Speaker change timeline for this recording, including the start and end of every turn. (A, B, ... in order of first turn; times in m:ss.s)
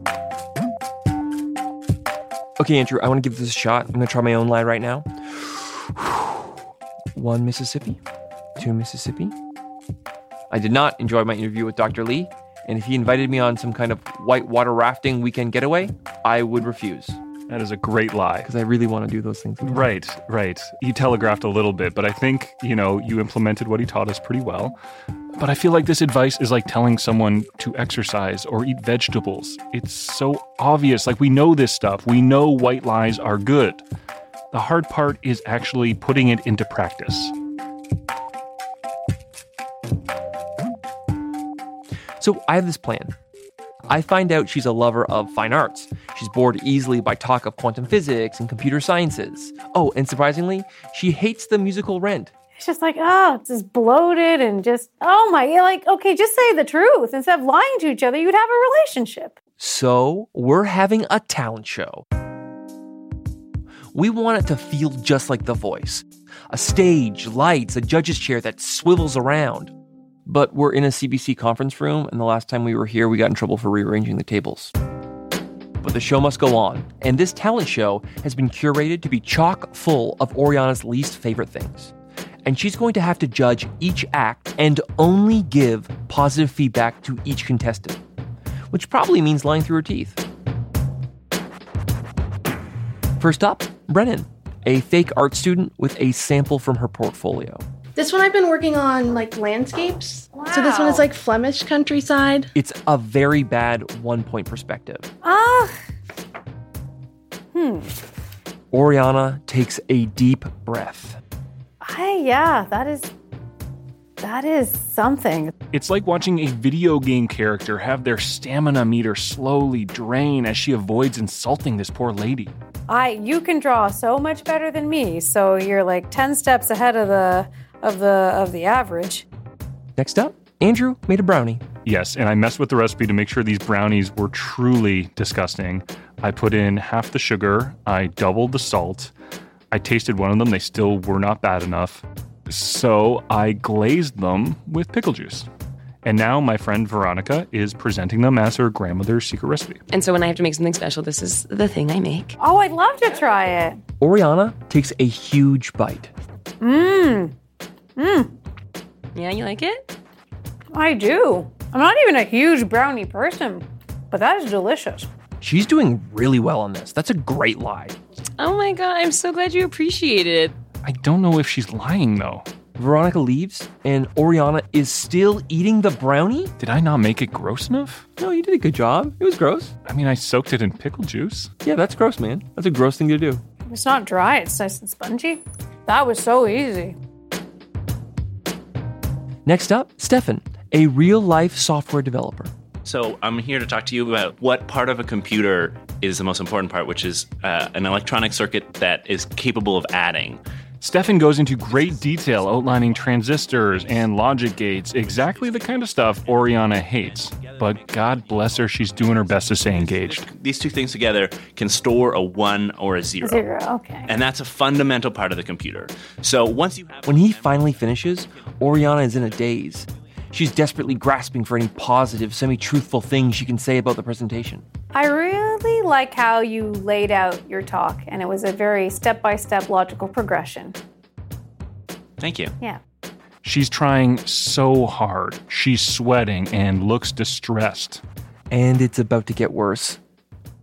0:02.6-0:06.4 A
0:07.1-0:08.0 A
0:08.6-0:09.4 A
0:10.5-0:17.2 A
0:17.5-0:18.5 B
0:18.4-0:19.8 A
0:19.6-0:24.8 B
0:25.3-0:33.8 B
0:34.5-0:37.3 B
0:42.2-0:43.1 A
0:43.9-0:52.3 A
0:52.6-0:59.4 C
0:59.6-1:02.0 A
1:03.9-1:09.7 A
1:10.3-1:14.7 A
1:15.8-1:21.9 A
1:22.4-1:28.0 A
1:28.7-1:30.2 A
1:33.2-1:37.6 A
1:38.0-1:42.5 D
1:40.3-1:41.1 C
1:42.5-1:45.1 A
1:45.2-1:45.8 C
1:47.5-1:47.9 C
1:48.7-1:51.2 A
1:51.8-1:53.1 C
1:54.2-1:55.5 C
1:55.7-2:02.5 B
2:02.9-2:09.3 C
2:10.0-2:11.6 A
2:11.8-2:19.1 B
2:19.7-2:25.5 B
2:26.0-2:29.8 B
2:29.9-2:32.3 E
2:32.4-2:33.8 C
2:34.0-2:36.1 A
2:36.6-2:37.4 C
2:38.0-2:38.4 C
2:39.2-2:39.8 E
2:40.7-2:45.1 C
2:45.4-2:48.0 A
2:48.4-2:50.5 E
2:50.8-2:52.5 B
2:52.8-2:56.5 A
2:56.6-2:58.0 B
2:58.2-2:59.7 A
2:59.8-3:01.5 B
3:01.6-3:03.4 A
3:03.7-3:07.0 C
3:09.5-3:12.5 A
3:12.8-3:20.4 F
3:20.8-3:30.3 B
3:30.2-3:33.4 F
3:33.2-3:34.1 C
3:34.1-3:37.0 F
3:37.0-3:44.6 A
3:44.9-3:50.8 C
3:52.2-3:52.5 F
3:53.4-3:58.0 B
3:58.5-4:00.0 A